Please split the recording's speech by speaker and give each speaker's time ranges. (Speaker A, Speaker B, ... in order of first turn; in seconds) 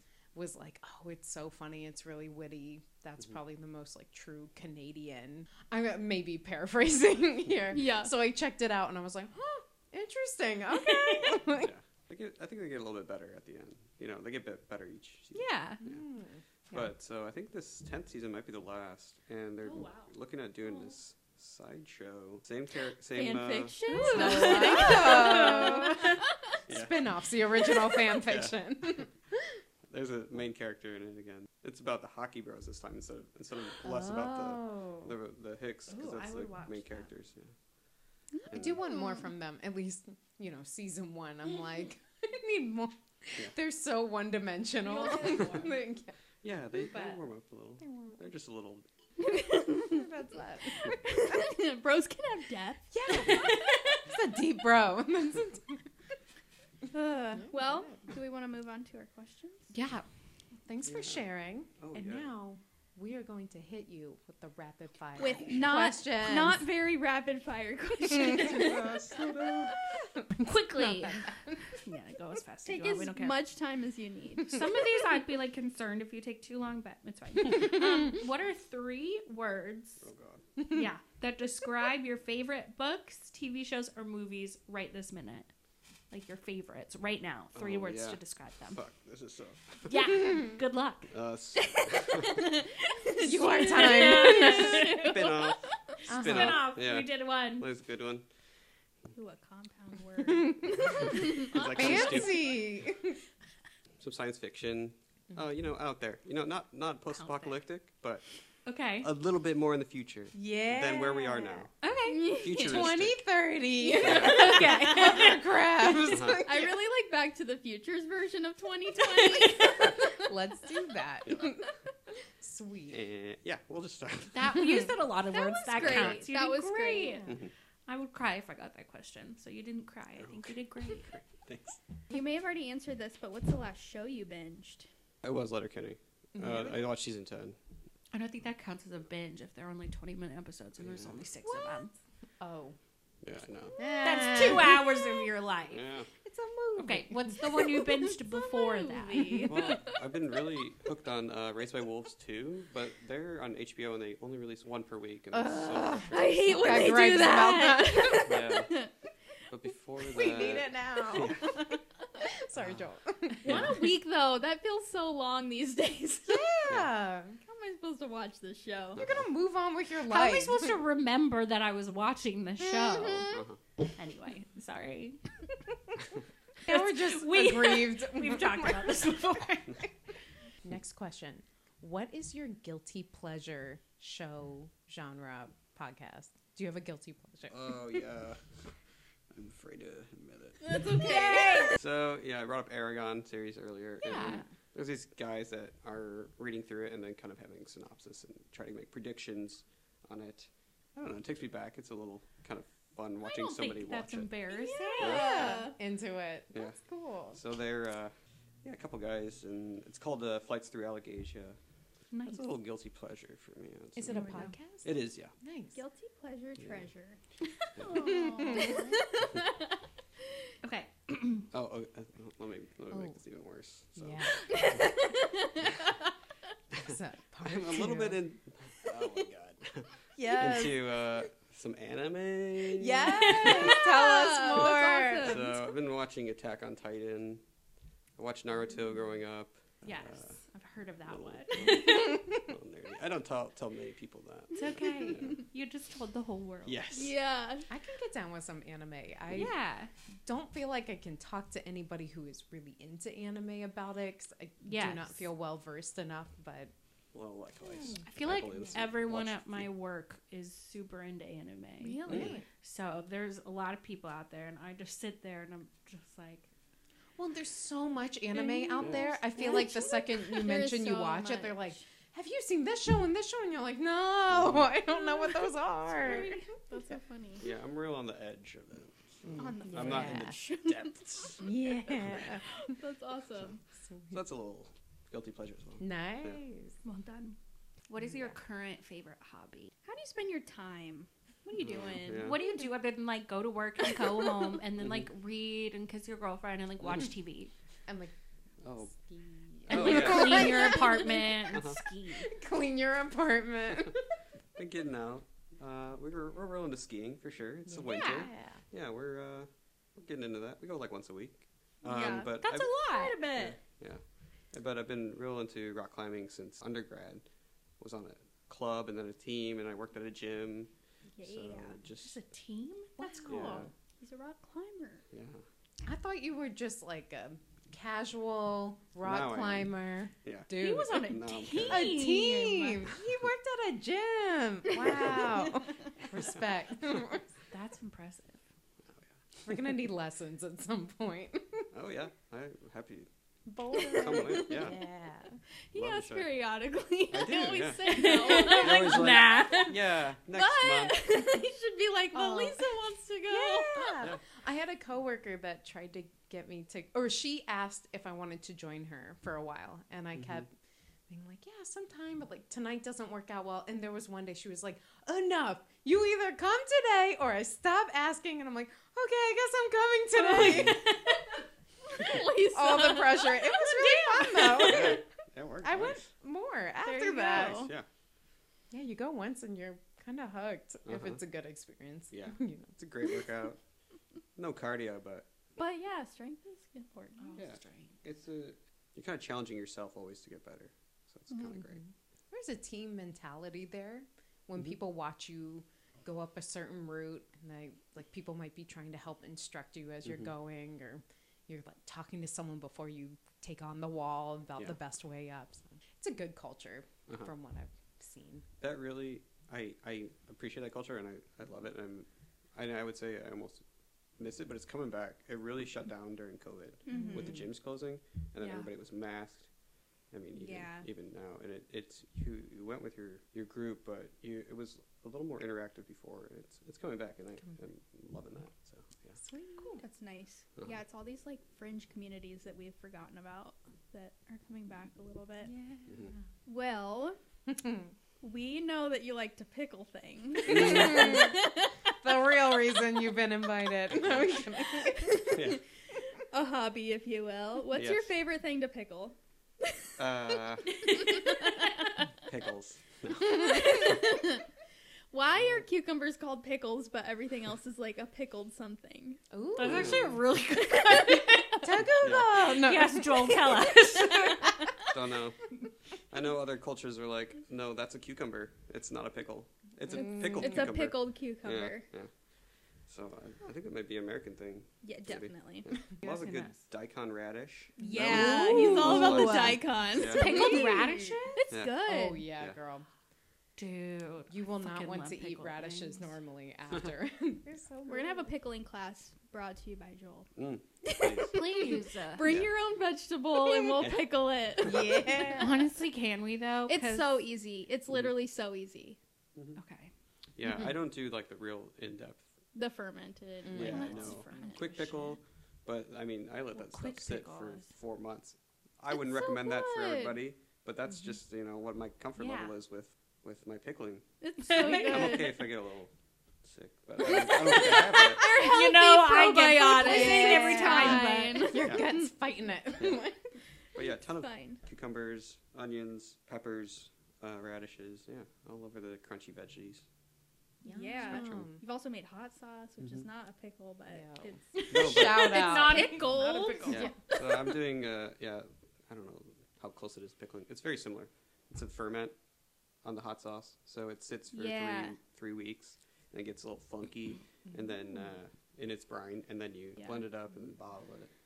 Speaker A: 0.3-11.7, 15.8-16.8, 23.9-29.1, 33.8-35.1, 38.5-46.1, 46.9-47.2, 47.8-48.2, 49.8-51.4, 52.9-55.8, 57.3-58.0, 59.7-60.0, 60.6-66.7, 70.7-71.6, 93.2-95.3, 96.0-96.7, 100.3-100.8, 101.5-103.2, 110.3-111.7, 112.6-116.7, 119.5-121.7, 122.4-123.0, 124.6-124.9, 136.3-136.8, 142.4-142.8, 143.7-145.3, 146.2-147.9, 155.3-158.4, 160.0-161.7, 162.2-163.7, 166.3-167.4, 168.9-170.8, 172.7-173.3, 176.6-179.1, 180.6-187.6, 190.7-191.7, 194.1-194.4, 205.0-207.4, 213.9-215.8, 217.8-219.1, 223.9-224.5, 226.8-228.2, 230.2-230.9, 232.6-235.4, 244.8-245.2, 247.7-249.5, 250.2-256.7, 262.0-262.4, 267.2-276.4, 279.2-280.3, 281.4-282.4, 283.8-284.1, 285.8-286.7, 288.0-288.4, 297.9-298.1, 298.9-304.0, 307.7-308.6, 323.0-323.7, 325.8-337.2, 339.4-341.7, 343.4-345.4, 352.1-352.7, 353.3-360.5, 361.1-370.8, 372.4-375.0, 375.6-377.7, 378.7-382.7, 392.3-408.4, 416.9-417.4, 429.2-429.8, 435.5-436.2, 437.5-437.9, 440.5-441.4, 442.0-445.1, 459.3-460.2, 461.6-463.8, 470.0-470.7, 477.8-479.5, 480.2-481.2, 481.8-482.9, 484.3-488.3, 494.6-495.7, 503.4-503.9, 519.7-523.2, 531.0-531.6, 533.9-536.9
Speaker B: 7.7-8.1, 15.3-15.8, 23.1-26.6, 38.3-39.2, 49.2-50.1, 50.8-53.3, 56.9-59.7, 65.2-69.9, 72.6-74.6, 93.2-95.1, 99.1-102.2, 112.0-112.9, 116.3-120.3, 125.3-127.3, 132.1-134.9, 148.3-150.0, 156.1-158.9, 163.4-166.6, 167.4-169.0, 190.6-191.8, 204.5-205.8, 215.7-217.2, 217.7-219.6, 224.5-225.8, 233.3-235.2, 246.9-247.7, 261.8-262.4, 268.3-271.8, 276.0-277.4, 279.4-283.6, 286.8-287.4, 289.8-292.4, 311.8-313.6, 321.1-321.8, 323.5-325.0, 345.7-349.8, 350.3-354.0, 371.9-373.8, 376.8-377.7, 385.6-387.4, 391.3-391.6, 416.9-417.4, 420.3-420.9, 429.8-435.5, 436.4-437.2, 438.2-441.8, 444.8-445.6, 446.3-449.2, 449.7-449.9, 450.8-451.9, 453.2-454.4, 455.1-459.2, 460.7-461.6, 470.0-471.9, 474.8-475.7, 477.8-482.3, 487.9-490.3, 490.8-495.4, 496.7-499.0, 502.5-504.6, 508.9-510.2, 514.2-515.4, 517.3-522.1, 524.2-524.6, 530.6-537.5, 544.3-545.0
Speaker C: 10.8-11.5, 19.6-20.1, 20.6-20.9, 23.9-26.1, 35.9-37.1, 44.9-45.7, 53.1-54.0, 70.4-73.4, 74.4-80.1, 80.7-85.5, 86.1-88.8, 89.9-91.1, 92.2-95.3, 96.1-97.7, 107.2-107.6, 108.7-109.1, 111.8-112.5, 113.8-115.4, 124.3-127.3, 127.9-131.1, 138.1-141.9, 143.8-145.8, 146.8-149.5, 156.1-158.3, 170.0-173.4, 173.9-175.2, 176.6-179.9, 203.2-205.5, 212.1-212.4, 214.1-214.5, 220.6-221.5, 233.2-233.8, 234.5-235.6, 239.8-242.4, 244.5-247.0, 249.3-249.9, 254.6-255.2, 258.1-266.5, 287.9-289.7, 292.2-297.5, 299.7-302.3, 307.9-308.3, 312.4-313.2, 322.0-323.6, 330.5-332.9, 337.5-338.4, 347.8-349.8, 370.1-371.2, 373.8-374.9, 387.2-387.9, 459.6-461.6, 462.1-464.5, 476.0-476.6, 477.9-481.5, 483.6-486.1, 491.2-492.3, 495.3-497.2, 499.6-499.9, 503.6-505.2, 506.6-507.7, 512.2-512.5, 514.5-515.3, 517.1-521.5, 530.7-531.1, 534.5-536.9
Speaker D: 11.5-16.0, 16.7-23.8, 26.7-29.0, 29.9-37.5, 38.5-38.8, 46.4-48.9, 60.8-61.2, 61.8-62.3, 68.2-69.8, 80.0-80.4, 87.5-88.2, 88.7-90.1, 91.1-92.5, 94.8-98.2, 100.8-102.6, 104.0-108.2, 109.0-111.7, 112.3-113.2, 113.9-114.9, 116.1-116.5, 122.9-124.8, 125.8-126.1, 127.2-127.5, 130.2-131.8, 135.2-137.6, 140.8-141.2, 143.2-143.8, 145.7-146.1, 149.5-157.0, 158.2-158.9, 159.5-161.7, 162.5-162.8, 163.4-163.7, 173.3-173.6, 187.5-188.7, 189.3-190.8, 191.7-204.3, 205.0-205.7, 207.3-211.6, 212.2-215.3, 217.8-218.1, 221.5-224.8, 227.4-233.7, 235.2-237.4, 238.2-240.4, 241.1-245.4, 246.6-247.2, 257.1-259.7, 262.1-262.3, 268.8-269.0, 274.3-274.7, 277.4-281.4, 284.1-286.4, 291.6-292.4, 294.8-295.1, 298.6-298.9, 299.7-300.8, 301.5-301.8, 304.6-312.7, 313.3-314.0, 314.5-317.2, 317.8-322.1, 323.2-323.7, 325.1-325.4, 329.0-332.0, 334.8-335.4, 341.7-343.1, 343.8-344.8, 345.7-346.3, 347.1-351.0, 360.2-360.4, 370.4-370.8, 374.6-376.1, 377.3-377.9, 380.9-381.2, 382.1-383.6, 384.4-385.3, 387.4-391.8, 408.6-413.6, 414.2-419.5, 420.1-429.1, 440.5-441.3, 443.9-444.4, 445.2-445.6, 447.7-448.1, 450.0-451.2, 452.0-454.0, 455.4-455.6, 459.6-460.2, 462.0-462.4, 464.9-465.5, 466.1-472.1, 472.9-480.2, 481.5-481.8, 490.4-491.4, 492.2-492.5, 493.8-495.0, 500.4-502.2, 503.5-515.9, 516.4-518.3, 521.6-521.9, 522.8-523.1, 523.7-529.8, 531.1-531.4, 534.7-535.6, 536.7-542.1, 542.8-551.1